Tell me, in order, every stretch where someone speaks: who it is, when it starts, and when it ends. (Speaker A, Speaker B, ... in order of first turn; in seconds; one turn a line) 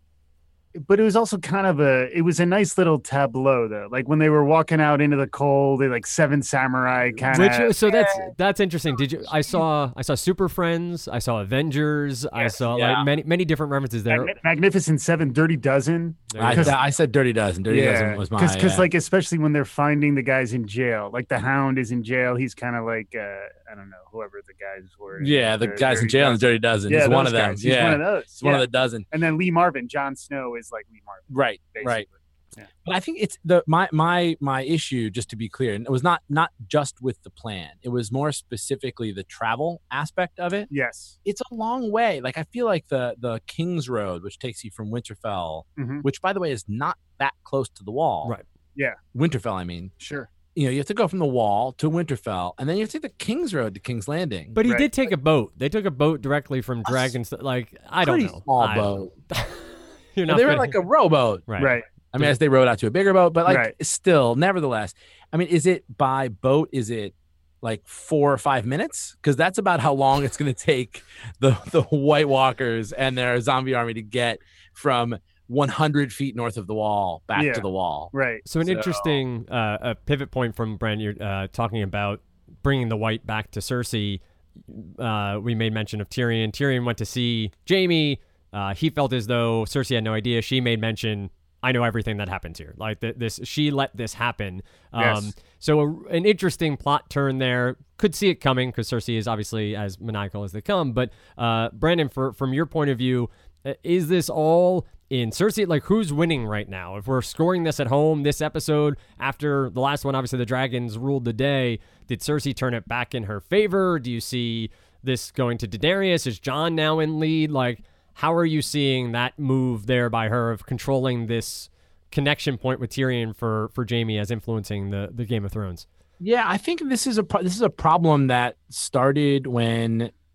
Speaker A: 0.7-8.3
Speaker B: 7.3-14.3
Speaker C: 12.7-13.1
Speaker A: 14.1-16.8
Speaker B: 16.3-16.8
Speaker C: 16.4-18.9
Speaker A: 17.7-32.7
Speaker C: 25.2-29.1
Speaker C: 31.3-32.0
Speaker C: 32.8-40.7
Speaker A: 40.7-41.1
Speaker C: 41.2-48.3
Speaker A: 45.8-46.0
Speaker C: 49.1-49.9
Speaker A: 50.0-50.3
Speaker C: 50.5-54.6
Speaker B: 54.5-60.8
Speaker A: 54.6-54.9
Speaker C: 56.9-57.1
Speaker C: 58.0-59.1
Speaker C: 60.3-61.5
Speaker B: 61.5-62.3
Speaker A: 61.6-61.9
Speaker C: 62.1-78.1
Speaker A: 63.5-63.7
Speaker A: 77.3-78.4
Speaker B: 78.5-125.8
Speaker C: 78.6-79.2
Speaker A: 95.0-95.3
Speaker C: 126.2-130.1